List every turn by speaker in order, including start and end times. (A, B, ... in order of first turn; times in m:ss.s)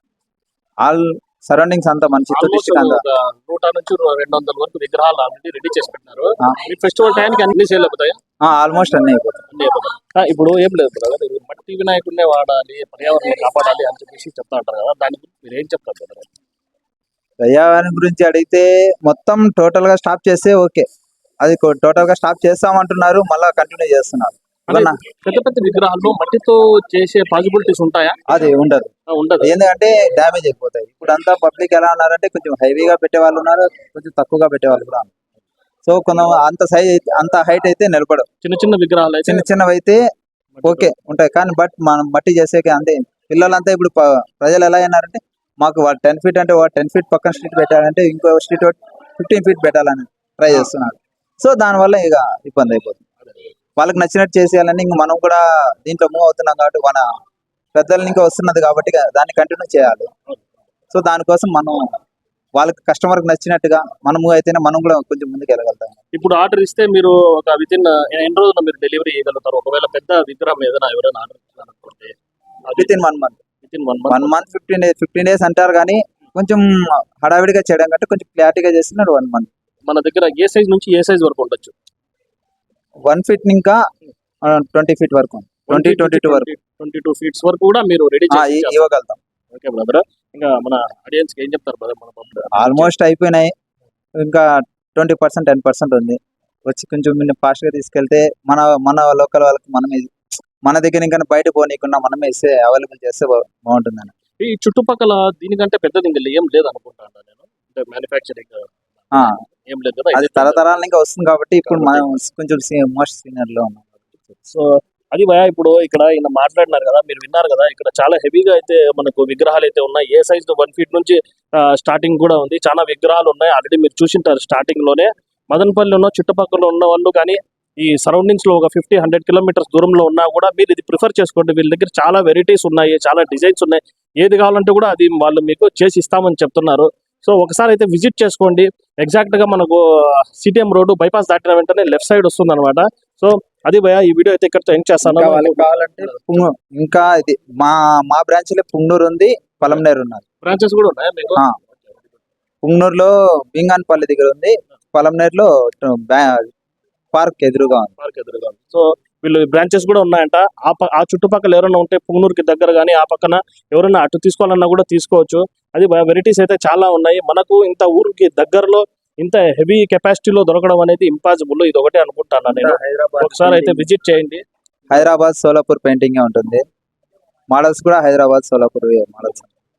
0:00.8-0:03.0 A
0:02.3-0:08.2 B
0:08.4-0:09.4 A
0:09.5-0:16.3 B
0:17.4-0:20.8 A
0:21.4-0:25.0 A
0:24.7-0:28.2 B
0:28.3-0:35.1 A
0:29.1-0:29.5 B
0:35.8-0:38.3 A
0:38.4-0:39.4 B
0:39.3-0:40.0 A
0:40.6-0:40.9 B
0:40.6-0:53.0 A
0:53.8-0:57.0 A
0:57.7-1:00.1 A
1:00.9-1:01.8 A
1:02.6-1:06.0 A
1:06.1-1:12.1 B
1:12.7-1:13.0 B
1:12.7-1:13.4 A
1:13.6-1:14.3 B
1:14.1-1:19.5 A
1:19.9-1:21.7 B
1:23.0-1:23.8 A
1:24.5-1:26.5 A
1:25.7-1:28.8 B
1:28.3-1:29.2 A
1:29.5-1:32.9 B
1:32.6-1:33.5 A
1:34.2-1:40.1 A
1:40.6-1:44.1 A
1:44.4-1:50.8 B
1:50.1-1:54.2 A
1:51.6-1:52.1 B
1:54.5-2:26.2 B
2:25.0-2:30.2 A
2:30.4-2:31.4 B
2:32.6-2:36.5 A
2:37.1-2:37.9 A
2:38.0-2:54.4 B
2:52.5-2:53.8 A
2:54.9-2:56.6 A
2:57.5-2:59.5 A